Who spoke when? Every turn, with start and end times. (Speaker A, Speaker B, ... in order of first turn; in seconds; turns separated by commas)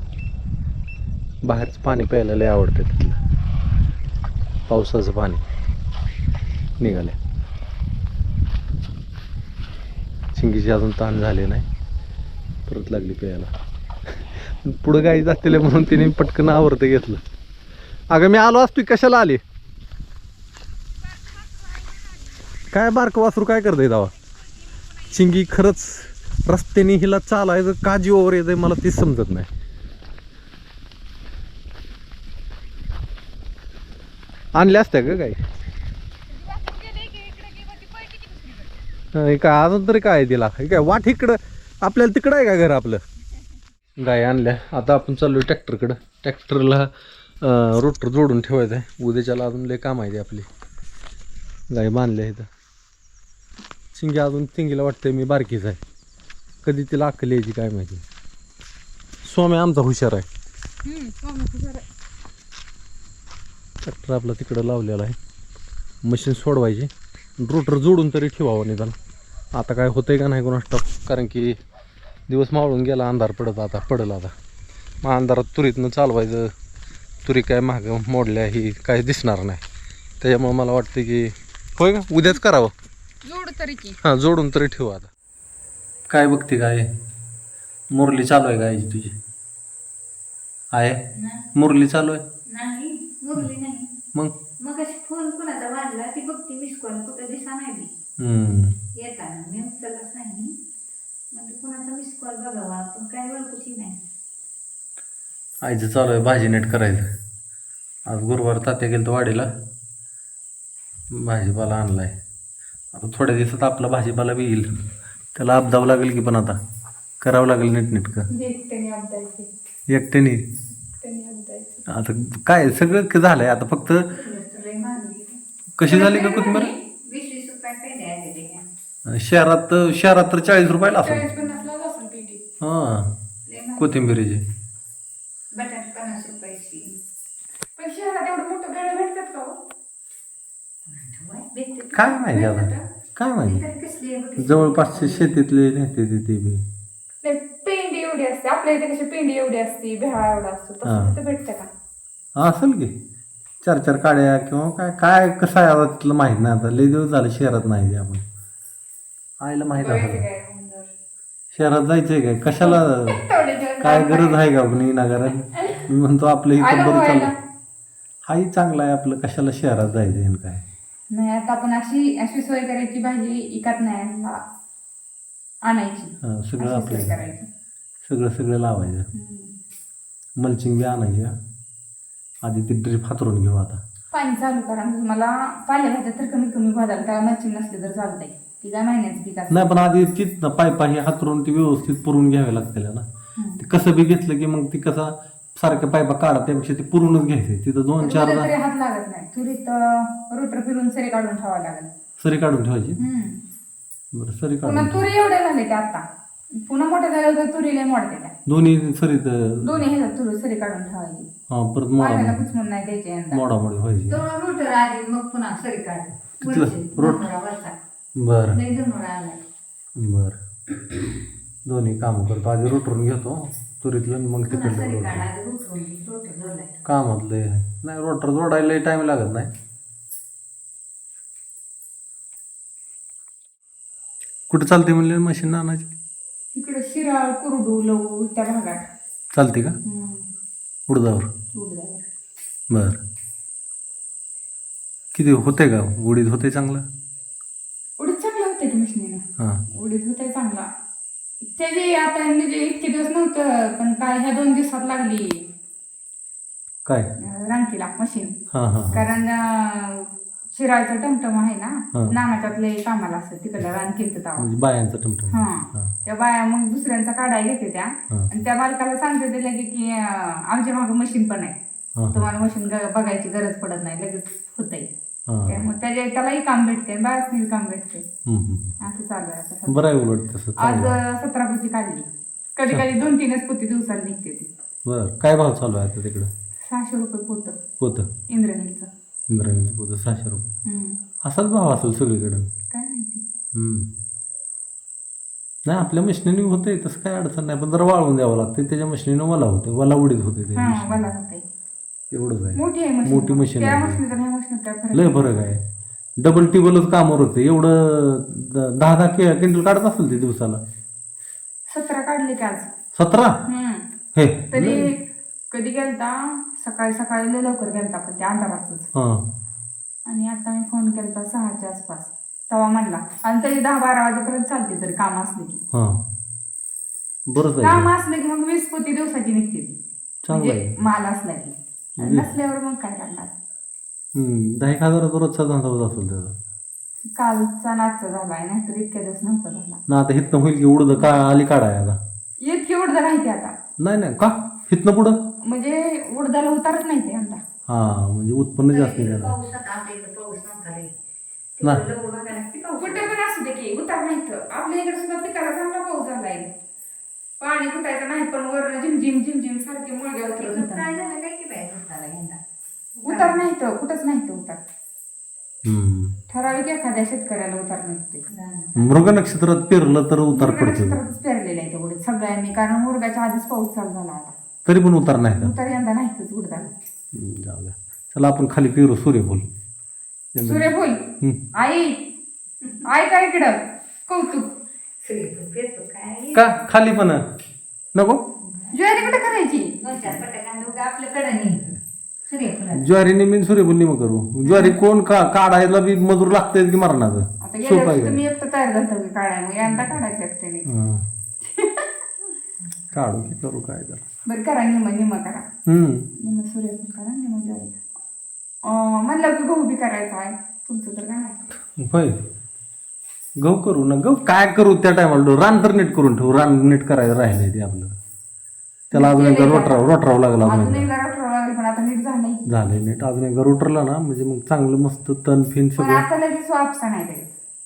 Speaker A: 1.4-3.2, Speaker A: 4.7-5.4, Speaker A: 6.8-7.2, Speaker A: 10.3-11.7, Speaker A: 12.7-13.5, Speaker A: 14.4-17.2, Speaker A: 18.1-19.4, Speaker A: 22.7-24.1, Speaker A: 25.0-29.5, Speaker A: 34.5-35.4, Speaker B: 36.4-38.6, Speaker A: 39.1-43.0, Speaker A: 44.0-50.5, Speaker A: 51.7-52.5, Speaker A: 53.9-55.8, Speaker A: 56.6-58.0, Speaker A: 59.2-60.2, Speaker B: 60.8-61.8, Speaker A: 63.8-65.2, Speaker A: 66.0-68.9, Speaker A: 69.5-71.5, Speaker A: 72.3-74.3, Speaker A: 75.0-76.5, Speaker A: 77.2-79.6, Speaker A: 80.2-82.7, Speaker B: 83.2-84.0, Speaker A: 84.0-85.1, Speaker A: 86.1-86.9, Speaker A: 87.9-89.2, Speaker A: 90.7-91.0, Speaker C: 91.1-91.5, Speaker A: 91.5-92.2, Speaker C: 92.5-93.9, Speaker C: 94.6-97.9, Speaker A: 98.2-98.8, Speaker C: 98.9-100.5, Speaker C: 101.3-104.0, Speaker A: 105.6-107.1, Speaker A: 108.1-109.5, Speaker A: 111.1-112.2, Speaker A: 112.9-114.7, Speaker A: 115.3-116.6, Speaker A: 117.2-118.3, Speaker B: 118.3-119.5, Speaker A: 119.9-120.4, Speaker B: 120.9-121.8, Speaker A: 121.9-124.1, Speaker C: 124.1-125.4, Speaker A: 125.8-126.7, Speaker B: 125.8-126.7, Speaker C: 126.1-128.7, Speaker A: 129.1-131.3, Speaker B: 130.9-132.4, Speaker A: 132.6-133.1, Speaker C: 133.5-134.0, Speaker A: 133.8-134.4, Speaker C: 135.5-137.0, Speaker B: 137.8-139.6, Speaker C: 140.9-142.1, Speaker A: 141.9-143.6, Speaker B: 142.1-142.8, Speaker C: 143.4-145.3, Speaker A: 144.4-146.6, Speaker B: 147.2-151.7, Speaker A: 150.8-151.2, Speaker A: 152.4-153.0, Speaker A: 153.6-158.2, Speaker A: 159.4-160.2, Speaker B: 159.7-160.9, Speaker A: 161.5-163.2, Speaker B: 162.5-164.4, Speaker A: 163.8-167.3, Speaker B: 165.5-165.9, Speaker B: 166.6-167.3, Speaker A: 168.2-170.6, Speaker B: 171.1-174.4, Speaker B: 175.6-177.5, Speaker A: 176.2-177.1, Speaker A: 178.1-179.1, Speaker B: 179.1-179.5, Speaker A: 180.4-181.3, Speaker A: 182.4-183.8, Speaker B: 184.1-189.8, Speaker A: 189.5-193.1, Speaker A: 193.6-198.5, Speaker B: 198.0-201.9, Speaker A: 202.2-203.0, Speaker B: 203.0-203.4, Speaker A: 204.1-205.1, Speaker B: 204.6-206.1, Speaker B: 206.6-208.3, Speaker A: 208.4-209.8, Speaker B: 209.6-211.3, Speaker A: 211.5-212.4, Speaker B: 212.0-213.4, Speaker A: 213.3-214.2, Speaker C: 214.1-217.8, Speaker A: 216.4-217.3, Speaker A: 218.2-218.6, Speaker C: 218.5-219.4, Speaker A: 220.0-220.4, Speaker A: 221.7-225.3, Speaker C: 224.5-226.8, Speaker A: 226.8-229.5, Speaker A: 234.5-235.9, Speaker B: 236.5-238.9, Speaker A: 239.3-239.8, Speaker B: 239.8-240.3, Speaker A: 240.9-241.3, Speaker B: 241.5-242.0, Speaker A: 242.7-243.0, Speaker A: 245.1-246.8, Speaker B: 248.0-250.7, Speaker B: 251.5-255.4, Speaker B: 257.2-258.3, Speaker A: 258.5-259.0, Speaker B: 258.9-264.5, Speaker A: 264.4-265.9, Speaker B: 265.3-271.6, Speaker A: 272.0-272.2, Speaker B: 272.1-274.9, Speaker A: 275.3-275.6, Speaker B: 275.4-278.0, Speaker A: 278.3-278.7, Speaker B: 278.8-279.9, Speaker A: 279.7-280.9, Speaker B: 280.6-284.5, Speaker A: 284.9-286.3, Speaker B: 286.6-287.6, Speaker A: 287.8-288.1, Speaker B: 288.3-288.9, Speaker A: 289.3-290.5, Speaker B: 290.6-291.0, Speaker A: 291.2-292.5, Speaker B: 292.7-293.2, Speaker A: 293.5-293.9, Speaker A: 295.7-301.0, Speaker B: 300.6-301.4, Speaker A: 302.1-304.0, Speaker B: 302.5-305.2, Speaker A: 304.9-305.6, Speaker A: 306.2-310.6, Speaker B: 311.7-312.7, Speaker A: 312.9-313.4, Speaker B: 313.4-313.8, Speaker A: 314.1-314.9, Speaker B: 314.5-314.9, Speaker B: 315.5-318.9, Speaker A: 318.9-319.2, Speaker B: 320.1-325.6, Speaker A: 325.7-326.0, Speaker A: 327.3-327.9, Speaker B: 327.6-329.7, Speaker A: 330.2-330.7, Speaker B: 330.3-333.3, Speaker A: 332.0-332.3, Speaker A: 334.1-336.4, Speaker B: 337.1-339.8, Speaker A: 339.9-342.0, Speaker B: 342.4-343.5, Speaker A: 343.8-345.1, Speaker B: 345.4-347.4, Speaker A: 347.7-349.3, Speaker C: 348.7-350.9, Speaker C: 351.6-353.1, Speaker B: 352.8-356.5, Speaker B: 357.4-360.9, Speaker C: 360.2-362.4, Speaker C: 362.9-363.4, Speaker B: 363.1-364.6, Speaker A: 365.6-366.1, Speaker B: 366.3-368.3, Speaker C: 368.3-368.9, Speaker A: 368.8-371.0, Speaker B: 370.3-374.3, Speaker A: 374.6-375.5, Speaker B: 375.4-376.7, Speaker A: 377.1-379.5, Speaker A: 380.3-381.4, Speaker B: 380.4-382.0, Speaker B: 382.8-384.5, Speaker C: 385.0-386.6, Speaker A: 386.3-387.2, Speaker A: 387.9-388.2, Speaker C: 388.4-392.9, Speaker B: 388.7-389.8, Speaker A: 392.7-398.2, Speaker B: 394.4-394.8, Speaker B: 397.4-400.7, Speaker A: 399.6-399.9, Speaker A: 400.6-401.0, Speaker B: 401.4-401.9, Speaker A: 402.9-404.0, Speaker B: 404.2-405.4, Speaker A: 405.7-406.1, Speaker B: 406.2-407.8, Speaker B: 408.6-411.4, Speaker A: 411.8-412.2, Speaker A: 413.4-417.9, Speaker A: 418.9-420.9, Speaker B: 418.9-419.9, Speaker B: 420.4-422.4, Speaker A: 422.4-426.0, Speaker B: 425.8-427.2